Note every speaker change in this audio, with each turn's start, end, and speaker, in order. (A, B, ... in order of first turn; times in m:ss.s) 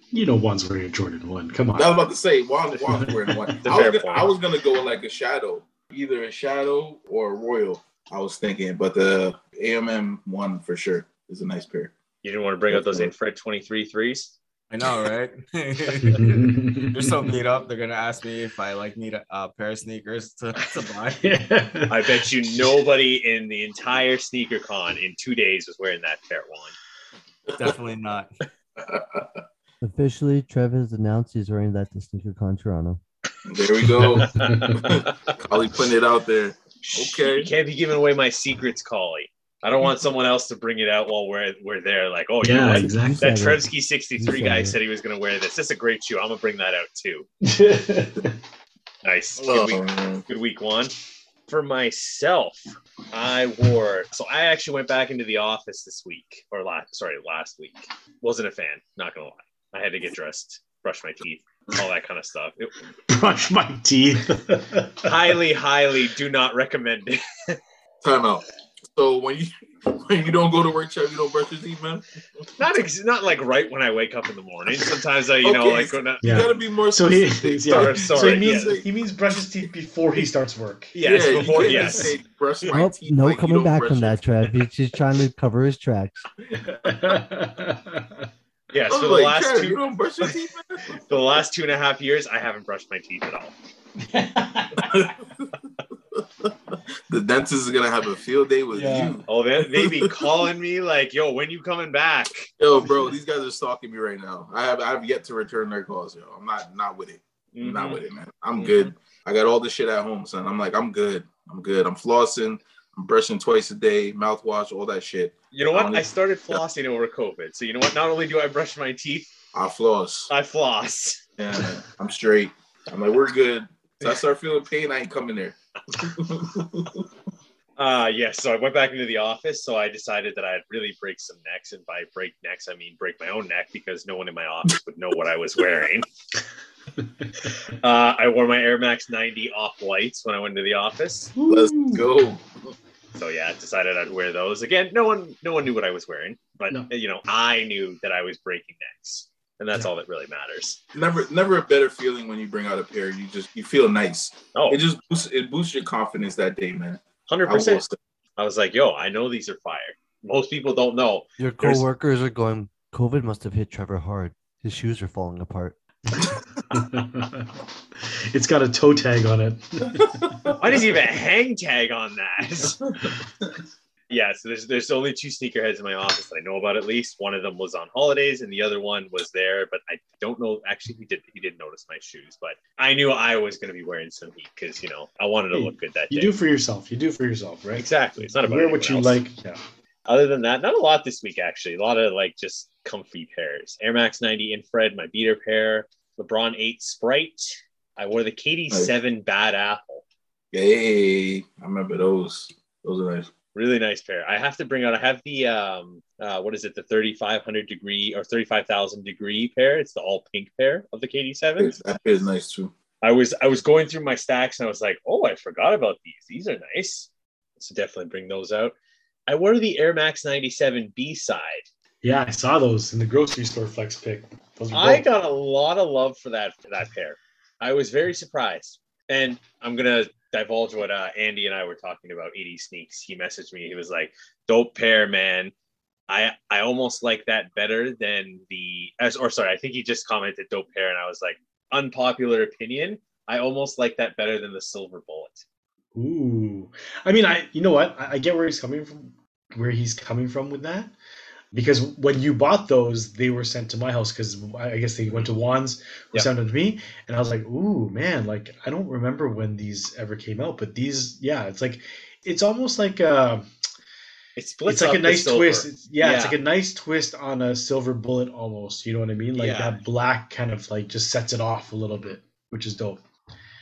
0:00.1-0:01.9 A
0:01.7-0:11.9 B
0:02.7-0:03.1 C
0:03.6-0:04.3 C
0:12.2-0:14.3 C
0:12.7-0:13.1 B
0:14.7-0:21.4 D
0:16.0-0:17.2 A
0:21.2-0:22.2 A
0:21.9-0:26.8 C
0:27.6-0:28.4 D
0:28.8-0:29.4 B
0:29.8-0:33.0 E
0:33.4-0:37.5 B
0:34.0-0:34.8 A
0:34.2-0:35.3 C
0:36.9-0:47.3 C
0:42.4-0:43.2 A
0:42.7-0:43.6 E
0:44.2-0:44.8 E
0:47.4-0:48.3 A
0:49.0-0:50.9 C
0:49.4-0:50.2 B
0:51.5-1:02.8 C
1:03.1-1:05.1 A
1:05.0-1:07.6 C
1:08.0-1:12.0 B
1:12.6-1:16.5 C
1:15.4-1:18.8 B
1:16.2-1:22.1 A
1:17.7-1:18.8 C
1:20.9-1:22.2 C
1:21.0-1:24.2 B
1:22.7-1:26.2 E
1:26.5-1:26.9 B
1:26.8-1:28.2 A
1:28.7-1:30.4 C
1:28.9-1:31.0 B
1:31.0-1:33.5 C
1:34.0-1:34.9 A
1:34.8-1:35.5 B
1:36.2-1:40.3 B
1:38.7-1:39.2 A
1:39.3-1:42.5 C
1:42.6-1:56.6 B
1:47.5-1:48.0 C
1:48.5-1:48.9 C
1:55.5-1:59.3 C
1:59.5-2:00.3 B
2:00.3-2:01.2 C
2:01.4-2:07.0 B
2:07.8-2:16.1 C
2:17.4-2:21.3 C
2:21.3-2:22.1 A
2:21.5-2:22.7 B
2:23.1-2:30.8 C
2:30.9-2:38.0 B
2:34.5-2:34.8 C
2:37.3-2:37.8 C
2:38.4-2:41.8 C
2:41.4-2:45.8 E
2:46.7-2:47.5 A
2:48.0-2:50.1 A
2:50.6-2:53.0 C
2:54.1-3:06.3 C
3:05.5-3:09.6 A
3:07.7-3:09.2 C
3:10.0-3:20.0 C
3:20.5-3:23.3 B
3:23.5-3:31.8 C
3:31.6-3:32.7 B
3:33.0-3:38.7 C
3:39.3-3:41.6 C
3:42.0-3:45.0 A
3:44.7-3:55.5 C
3:56.1-4:05.4 C
4:05.9-4:10.9 A
4:11.5-4:23.5 A
4:24.4-4:26.4 C
4:24.7-4:33.0 A
4:29.4-4:29.8 C